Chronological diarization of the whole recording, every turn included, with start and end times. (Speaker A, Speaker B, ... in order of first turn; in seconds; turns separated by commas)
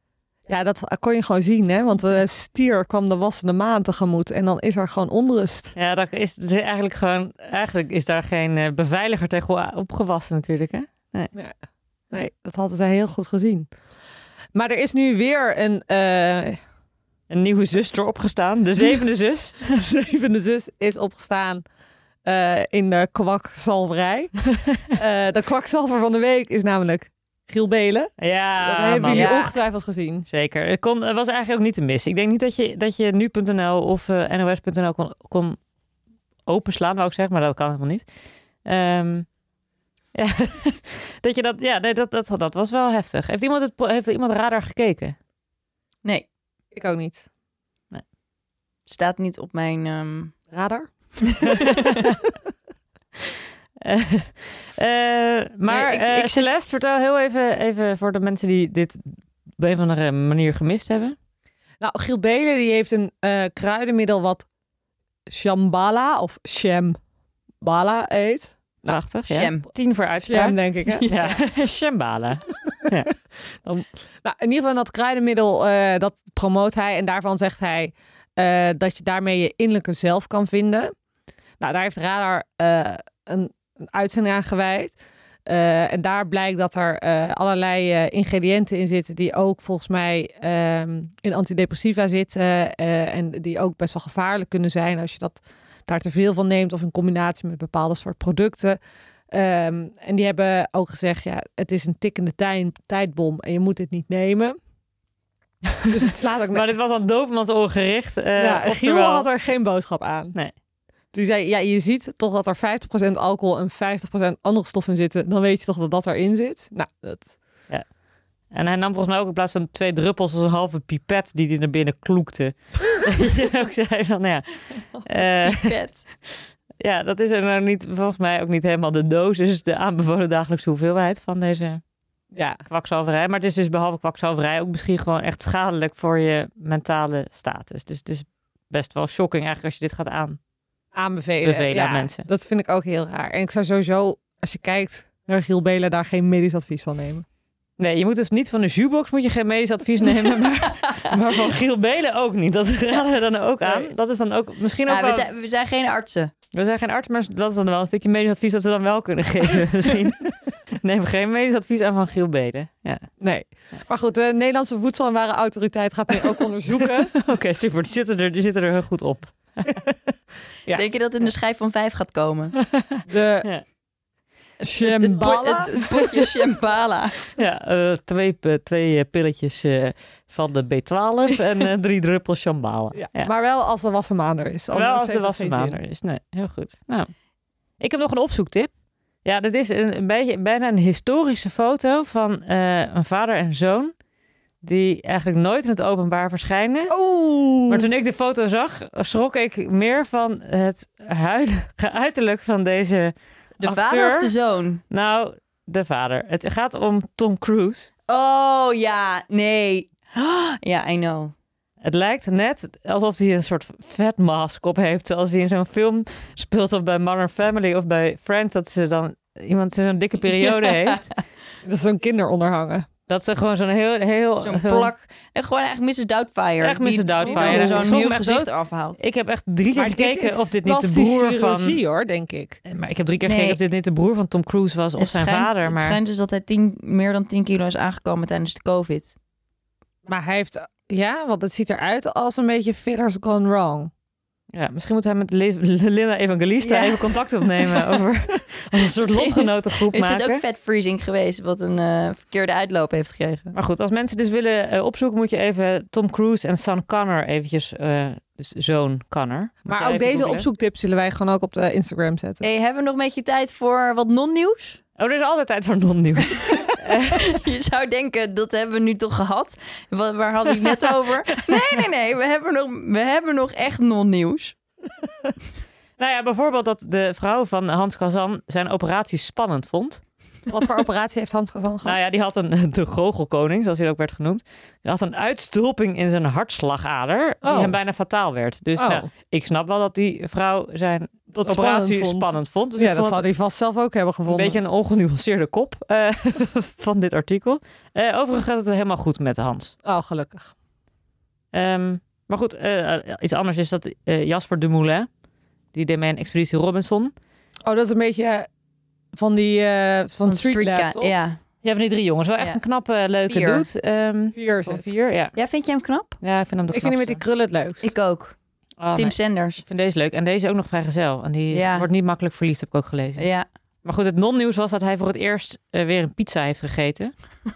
Speaker A: 0.5-5.7, Speaker B: 5.8-11.3, Speaker A: 12.1-13.7, Speaker A: 14.5-16.6, Speaker B: 17.3-19.8, Speaker A: 19.7-21.6, Speaker A: 22.2-24.4, Speaker A: 24.9-30.3, Speaker B: 28.2-29.4, Speaker C: 29.0-29.5, Speaker B: 30.3-35.6, Speaker B: 36.5-38.0, Speaker B: 38.6-39.2, Speaker B: 40.1-45.1, Speaker A: 46.7-47.3, Speaker C: 48.9-50.3, Speaker A: 50.5-51.6, Speaker C: 51.3-52.0, Speaker B: 51.6-52.1, Speaker B: 53.8-61.1, Speaker C: 55.7-56.5, Speaker A: 61.8-64.5, Speaker A: 65.3-67.0, Speaker A: 67.6-69.0, Speaker B: 68.8-73.1, Speaker C: 69.3-69.7, Speaker A: 70.2-71.1, Speaker C: 70.9-71.4, Speaker A: 73.5-80.9, Speaker A: 81.6-98.8, Speaker A: 99.3-104.6, Speaker B: 105.8-109.3, Speaker A: 105.9-106.7, Speaker A: 108.4-110.3, Speaker A: 111.1-117.4, Speaker B: 118.5-125.7, Speaker C: 124.9-126.0, Speaker B: 126.8-131.8, Speaker A: 132.3-132.6, Speaker B: 132.7-140.4, Speaker A: 140.9-147.2, Speaker B: 141.4-142.2, Speaker B: 147.8-155.2, Speaker C: 150.7-151.1, Speaker A: 153.6-153.9, Speaker C: 154.8-156.3, Speaker B: 156.5-163.1, Speaker A: 163.2-167.1, Speaker B: 166.8-169.8, Speaker C: 170.7-172.6, Speaker B: 172.6-173.6, Speaker A: 173.1-173.5, Speaker A: 174.6-176.2, Speaker C: 174.6-177.2, Speaker B: 177.3-183.3, Speaker A: 182.9-185.8, Speaker B: 184.7-187.1, Speaker B: 187.8-188.7, Speaker B: 189.2-193.9, Speaker B: 194.6-196.9, Speaker A: 196.9-197.8, Speaker B: 197.7-204.3, Speaker C: 203.6-204.8, Speaker B: 204.9-207.9, Speaker C: 208.1-211.3, Speaker B: 211.8-221.1, Speaker C: 220.3-221.0, Speaker A: 221.6-222.9, Speaker B: 223.1-224.9, Speaker C: 224.4-229.0, Speaker B: 226.6-231.8, Speaker A: 227.2-228.0, Speaker A: 229.7-232.6, Speaker B: 232.7-236.0, Speaker C: 233.2-233.6, Speaker C: 235.0-239.2, Speaker A: 240.1-243.9, Speaker B: 244.5-250.4, Speaker C: 246.6-247.9, Speaker C: 249.0-253.5, Speaker B: 253.5-260.4, Speaker A: 259.6-262.4, Speaker C: 262.4-264.8, Speaker B: 265.0-267.4, Speaker C: 266.3-274.6, Speaker B: 270.6-271.6, Speaker B: 276.0-280.0, Speaker A: 280.5-282.0, Speaker B: 281.8-293.2, Speaker A: 287.4-287.8, Speaker A: 288.8-289.1, Speaker A: 291.3-294.6, Speaker B: 294.3-299.7, Speaker A: 299.8-300.5, Speaker B: 301.5-305.1, Speaker B: 305.7-307.1, Speaker A: 307.6-308.5, Speaker A: 309.1-311.1, Speaker C: 310.2-311.4, Speaker B: 311.6-315.3, Speaker C: 313.2-313.6, Speaker A: 314.3-314.9, Speaker C: 315.3-316.2, Speaker B: 316.2-317.2, Speaker A: 316.7-317.9, Speaker C: 317.8-318.4, Speaker B: 318.8-323.2, Speaker C: 318.9-319.6, Speaker C: 321.5-321.9, Speaker C: 323.2-323.5, Speaker B: 323.8-327.1